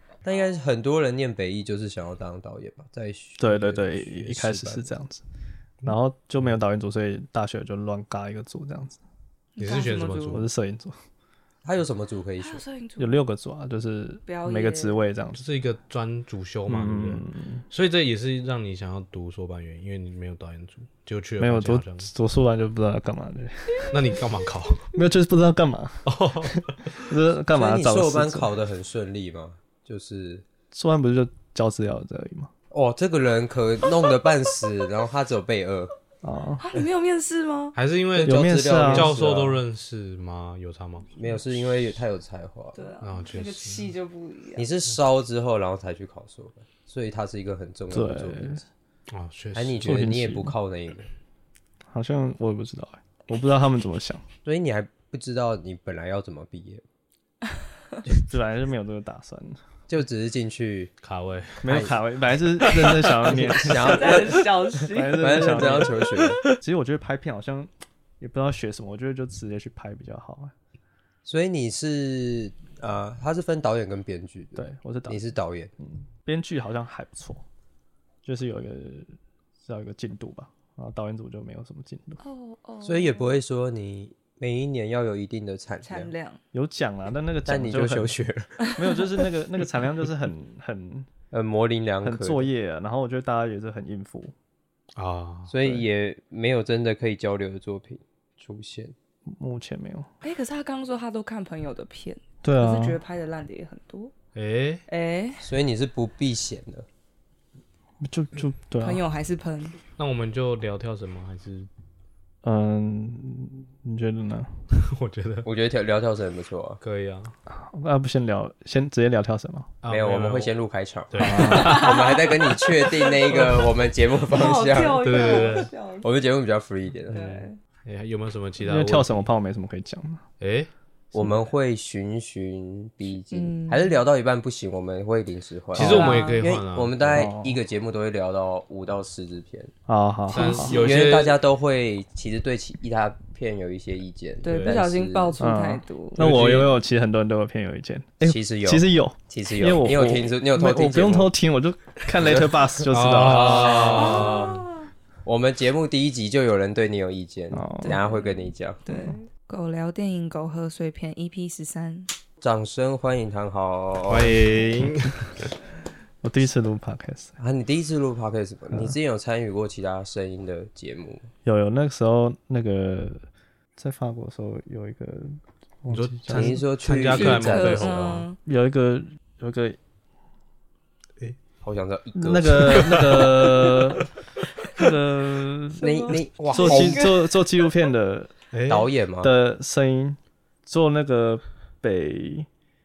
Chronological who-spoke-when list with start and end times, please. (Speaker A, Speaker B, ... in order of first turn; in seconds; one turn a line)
Speaker A: 0.2-4.9
Speaker B: 3.4-5.2
Speaker B: 5.8-9.0
Speaker C: 9.6-10.5
Speaker D: 9.6-10.5
Speaker B: 10.3-10.9
Speaker A: 11.6-12.6
Speaker C: 12.4-13.2
Speaker B: 13.0-15.4
Speaker C: 14.3-15.0
Speaker D: 15.3-22.1
Speaker B: 16.7-17.6
Speaker B: 21.4-24.0
Speaker D: 23.9-24.9
Speaker B: 24.9-28.5
Speaker D: 26.1-27.1
Speaker A: 27.5-30.4
Speaker B: 30.7-32.5
Speaker A: 32.7-35.9
Speaker B: 36.2-36.6
Speaker C: 36.6-37.8
Speaker D: 37.8-41.2
Speaker A: 38.1-39.6
Speaker B: 38.2-39.1
Speaker A: 41.1-42.8
Speaker C: 42.8-44.7
Speaker D: 43.0-43.9
Speaker A: 44.6-48.7
Speaker B: 47.9-48.6
Speaker D: 49.1-50.0
Speaker A: 49.5-51.1
Speaker B: 49.8-50.5
Speaker B: 51.9-54.2
Speaker A: 54.5-56.8
Speaker B: 58.2-59.6
Speaker A: 59.9-60.9
Speaker D: 61.0-61.6
Speaker B: 61.6-64.3
Speaker A: 61.7-62.0
Speaker C: 62.7-65.8
Speaker A: 63.2-66.4
Speaker B: 64.9-70.5
Speaker A: 71.2-75.7
Speaker B: 74.6-75.2
Speaker B: 75.8-77.4
Speaker B: 78.2-79.1
Speaker B: 79.7-82.2
Speaker C: 82.2-83.3
Speaker A: 82.8-86.1
Speaker C: 85.8-86.4
Speaker B: 86.5-88.1
Speaker A: 87.5-88.5
Speaker B: 88.8-91.1
Speaker A: 91.3-92.5
Speaker B: 92.0-94.3
Speaker D: 95.0-95.5
Speaker A: 95.5-99.0
Speaker B: 99.3-100.1
Speaker C: 100.2-104.1
Speaker B: 102.4-103.0
Speaker D: 104.3-104.8
Speaker C: 104.9-105.4
Speaker A: 105.4-106.9
Speaker B: 108.0-109.0
Speaker C: 108.8-109.8
Speaker D: 110.0-111.7
Speaker B: 112.4-114.5
Speaker D: 114.7-115.5
Speaker A: 115.5-116.8
Speaker D: 116.8-117.3
Speaker B: 117.5-119.7
Speaker D: 119.8-120.5
Speaker A: 119.9-127.3
Speaker D: 121.1-122.3
Speaker B: 121.2-121.8
Speaker C: 121.5-122.2
Speaker C: 122.8-123.1
Speaker D: 123.3-123.6
Speaker C: 124.3-126.1
Speaker D: 124.8-125.7
Speaker D: 127.1-129.3
Speaker C: 127.1-127.6
Speaker B: 128.6-130.2
Speaker D: 130.4-130.7
Speaker A: 131.1-139.7
Speaker C: 133.3-134.0
Speaker D: 135.7-137.3
Speaker C: 135.8-136.5
Speaker B: 137.1-137.6
Speaker B: 139.9-140.7
Speaker C: 140.3-141.0
Speaker D: 140.3-141.4
Speaker A: 140.7-145.4
Speaker C: 144.4-146.4
Speaker D: 144.4-144.8
Speaker B: 145.4-153.9
Speaker D: 146.2-146.8
Speaker A: 148.2-151.3
Speaker D: 152.3-154.6
Speaker A: 153.2-154.7
Speaker C: 154.0-154.9
Speaker A: 155.2-158.8
Speaker B: 157.5-158.0
Speaker C: 157.8-158.3
Speaker C: 158.9-162.1
Speaker A: 162.4-164.4
Speaker D: 164.1-165.5
Speaker B: 166.2-167.3
Speaker A: 167.4-171.3
Speaker B: 171.4-176.6
Speaker D: 175.9-178.2
Speaker A: 176.3-178.2
Speaker C: 177.1-178.4
Speaker B: 178.4-179.8
Speaker A: 181.6-183.6
Speaker B: 182.2-184.1
Speaker D: 182.8-183.2
Speaker B: 184.8-188.3
Speaker A: 185.8-187.1
Speaker C: 185.8-187.3
Speaker D: 188.5-188.9
Speaker A: 188.7-189.3
Speaker B: 189.2-192.5